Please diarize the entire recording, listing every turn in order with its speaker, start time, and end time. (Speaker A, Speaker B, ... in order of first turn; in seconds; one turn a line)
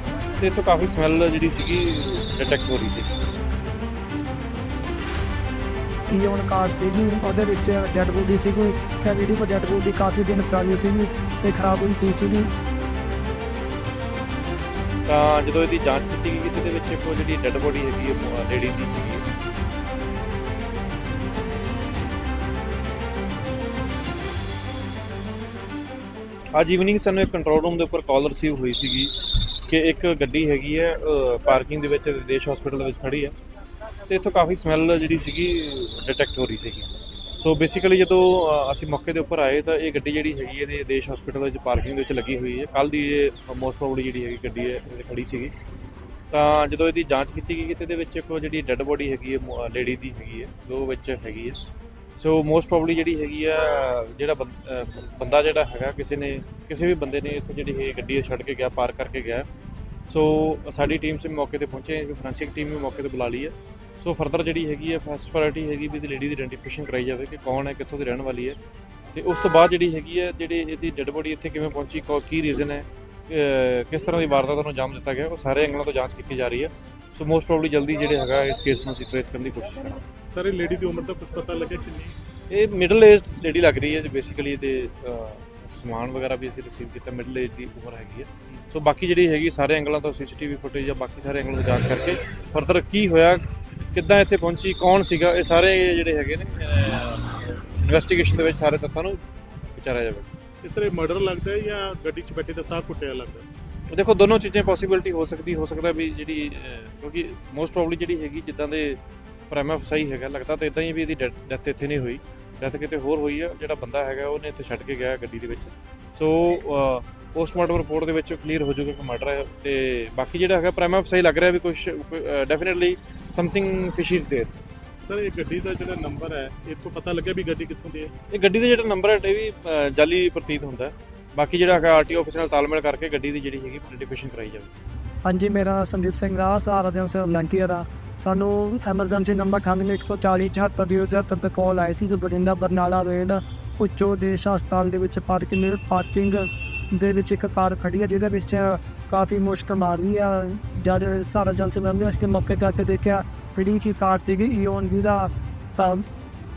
Speaker A: 0.4-3.1
Speaker B: 6.1-12.5
Speaker A: 15.1-19.2
Speaker A: 26.6-33.3
Speaker A: 34.1-45.5
Speaker A: 46.3-59.5
Speaker A: 60.1-68.6
Speaker A: 69.1-80.0
Speaker C: 80.3-82.2
Speaker A: 82.5-99.2
Speaker A: 99.7-100.3
Speaker C: 100.6-103.5
Speaker A: 103.9-109.0
Speaker A: 109.5-124.5
Speaker C: 125.0-128.1
Speaker A: 128.3-134.7
Speaker B: 135.2-156.0